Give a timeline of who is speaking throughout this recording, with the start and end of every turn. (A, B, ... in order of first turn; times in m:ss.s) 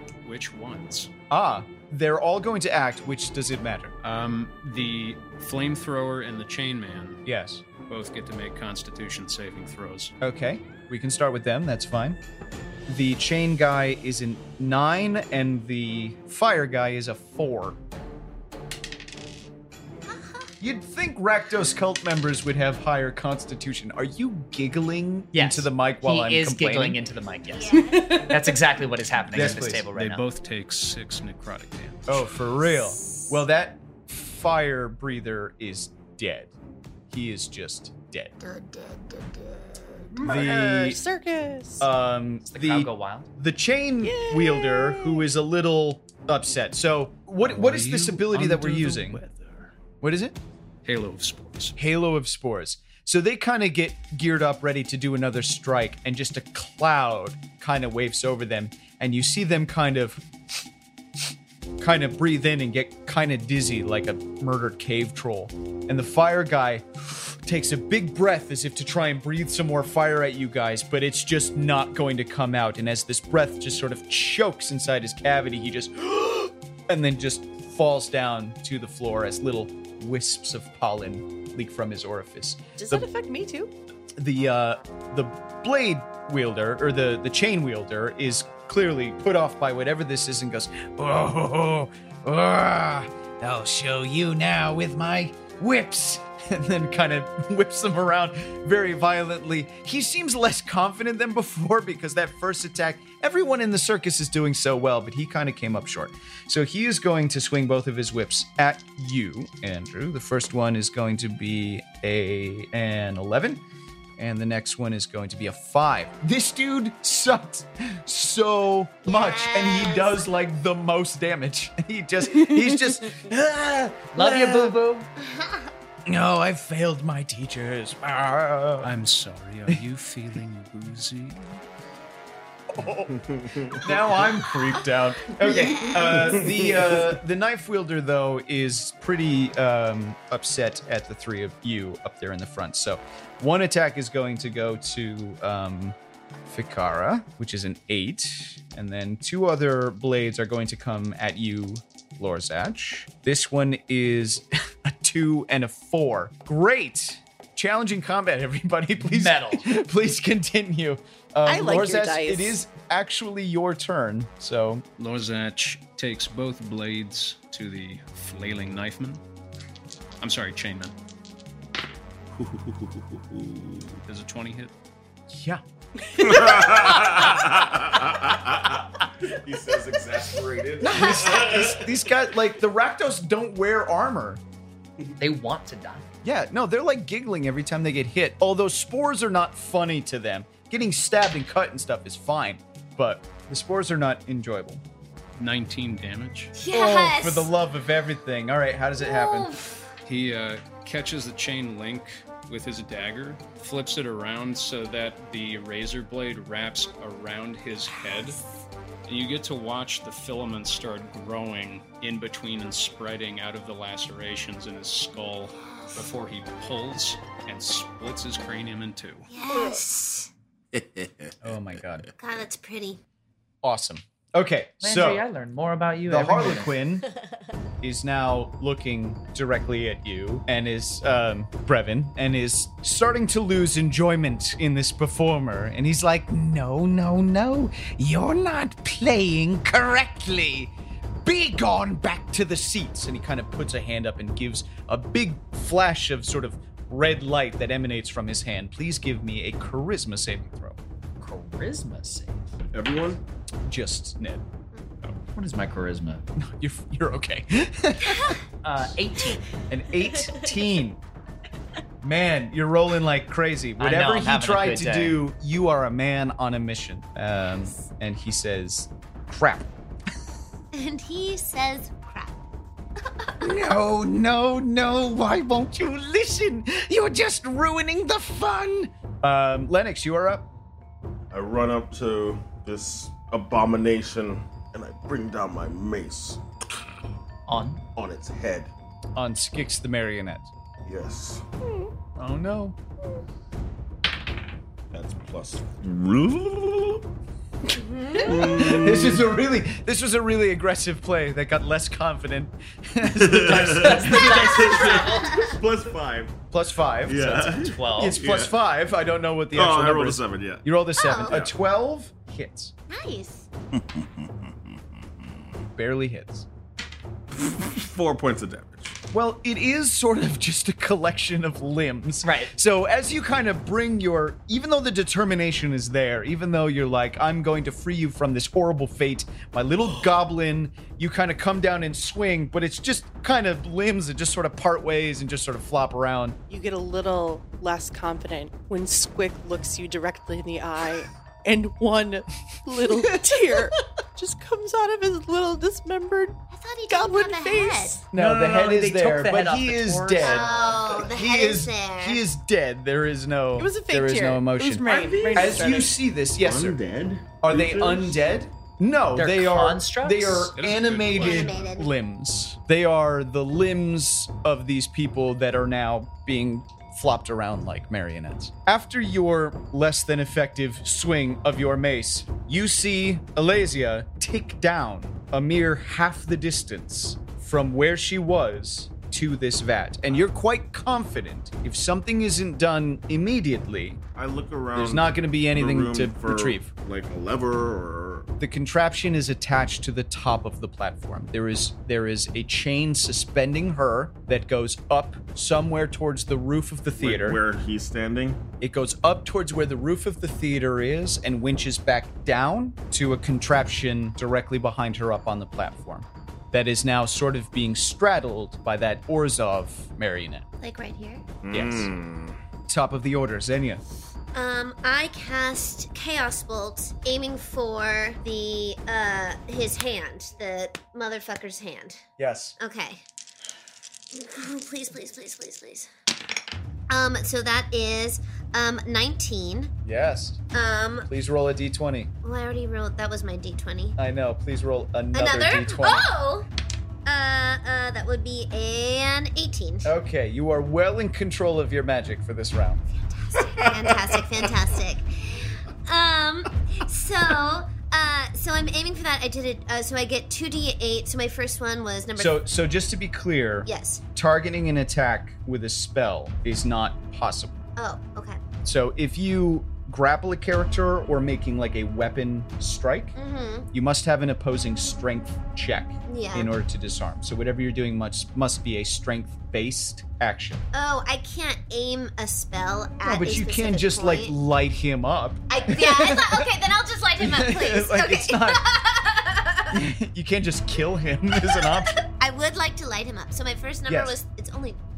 0:00.2-0:01.1 A
0:01.3-0:04.0 B
0:04.0-0:07.2 A
0:07.3-0:07.6 B
0:07.8-0:10.1 A
0:10.2-0:12.2 B
0:12.9-0:17.8 B
0:20.0-0:20.5 C
0:20.6-0:27.0 B
0:25.3-0:30.2 D
0:27.5-0:28.2 C
0:28.0-0:28.4 E
0:29.3-0:29.9 B
0:29.7-0:32.0 A
0:32.1-0:36.5 B
0:32.8-0:33.3 C
0:37.1-0:38.4 B
0:38.4-0:39.7 C
0:40.1-0:41.9 E
0:40.2-0:41.0 B
0:41.8-0:49.2 B
0:42.5-0:43.3 D
0:44.0-0:45.3 E
0:47.4-0:49.7 A
0:50.0-0:50.4 B
0:50.8-0:51.8 A
0:51.8-1:00.2 B
1:01.8-1:23.1 B
1:22.8-1:23.7 E
1:24.2-1:53.6 B
1:54.2-2:04.8 B
1:59.0-2:00.3 C
2:04.1-2:05.1 D
2:05.2-2:05.7 C
2:06.1-2:08.9 B
2:08.8-2:11.6 A
2:12.7-2:44.8 B
2:13.2-2:13.9 F
2:15.4-2:16.1 C
2:16.1-2:17.1 F
2:39.0-2:39.7 D
2:41.5-2:42.6 E
2:45.0-2:49.2 A
2:50.2-2:50.9 A
2:52.4-2:54.0 F
2:54.0-2:54.7 A
2:55.3-2:55.6 B
2:56.2-3:02.1 F
3:00.8-3:04.4 B
3:05.2-3:06.1 D
3:06.2-3:14.8 B
3:15.4-3:16.5 A
3:16.5-3:17.5 C
3:16.7-3:19.6 B
3:19.0-3:19.9 C
3:20.0-3:28.4 A
3:29.1-3:39.3 A
3:39.3-3:40.3 C
3:40.7-3:41.6 F
3:41.4-3:42.1 B
3:42.2-3:43.0 C
3:43.6-3:45.2 B
3:44.8-3:46.8 D
3:46.1-3:47.1 B
3:47.8-4:00.7 B
4:01.2-4:10.8 B
4:11.2-4:12.4 D
4:12.7-4:13.2 F
4:13.6-4:14.4 B
4:15.3-4:16.2 D
4:16.4-4:18.4 B
4:18.6-4:19.4 D
4:19.7-4:21.0 B
4:22.0-4:29.7 B
4:23.8-4:25.2 D
4:30.7-4:32.4 C
4:33.4-4:40.5 B
4:41.3-4:46.4 F
4:47.5-4:47.8 D
4:48.0-4:48.7 F
4:49.2-4:50.5 B
4:50.8-4:51.4 F
4:52.2-4:52.8 B
4:54.9-4:57.0 F
4:57.7-4:58.4 C
4:58.2-4:59.3 F
4:58.4-5:04.8 B
5:03.0-5:06.4 F
5:03.6-5:05.3 D
5:04.3-5:05.6 C
5:06.5-5:12.7 B
5:07.0-5:08.6 F
5:07.5-5:08.2 D
5:09.5-5:10.7 F
5:11.0-5:11.5 C
5:11.2-5:11.5 F
5:12.9-5:13.5 C
5:13.7-5:14.5 F
5:15.8-5:16.5 B
5:17.3-5:19.0 F
5:19.1-5:36.4 B
5:22.2-5:22.5 D
5:36.5-5:48.0 E
5:43.0-5:43.6 B
5:46.5-5:48.0 C
5:48.1-5:56.8 B
5:48.1-5:50.5 D
5:50.2-5:52.2 C
5:53.6-5:55.9 E
5:54.8-5:55.9 F
5:56.4-5:58.2 F
5:57.4-6:24.0 B
5:59.2-6:00.6 D
6:00.5-6:01.7 A
6:01.1-6:01.9 C
6:24.2-6:28.3 F
6:24.8-6:26.7 B
6:28.4-6:37.4 B
6:36.9-6:38.4 F
6:38.6-6:50.4 B
6:50.6-6:51.3 C
6:51.4-6:52.4 F
6:51.5-6:51.9 B
6:52.7-6:53.8 B
6:54.3-7:02.0 C
7:02.2-7:02.6 B
7:02.6-7:03.0 C
7:04.1-7:05.9 C
7:06.9-7:09.7 C
7:09.8-7:10.4 B
7:10.5-7:11.1 C
7:11.1-7:12.1 B
7:12.2-7:14.0 C
7:14.0-7:16.1 B
7:15.1-7:16.5 C
7:17.1-7:19.9 C
7:19.8-7:22.8 B
7:23.0-7:32.4 C
7:32.2-7:37.6 B
7:33.6-7:34.0 C
7:37.8-7:38.4 C
7:38.6-7:43.2 B
7:43.2-7:43.7 C
7:43.7-7:50.6 B
7:46.1-7:46.5 C
7:50.7-7:54.3 C
7:53.0-7:56.5 B
7:55.5-7:59.9 C
7:57.2-7:58.6 B
7:59.7-8:02.0 B
8:01.4-8:04.8 C
8:03.9-8:04.2 B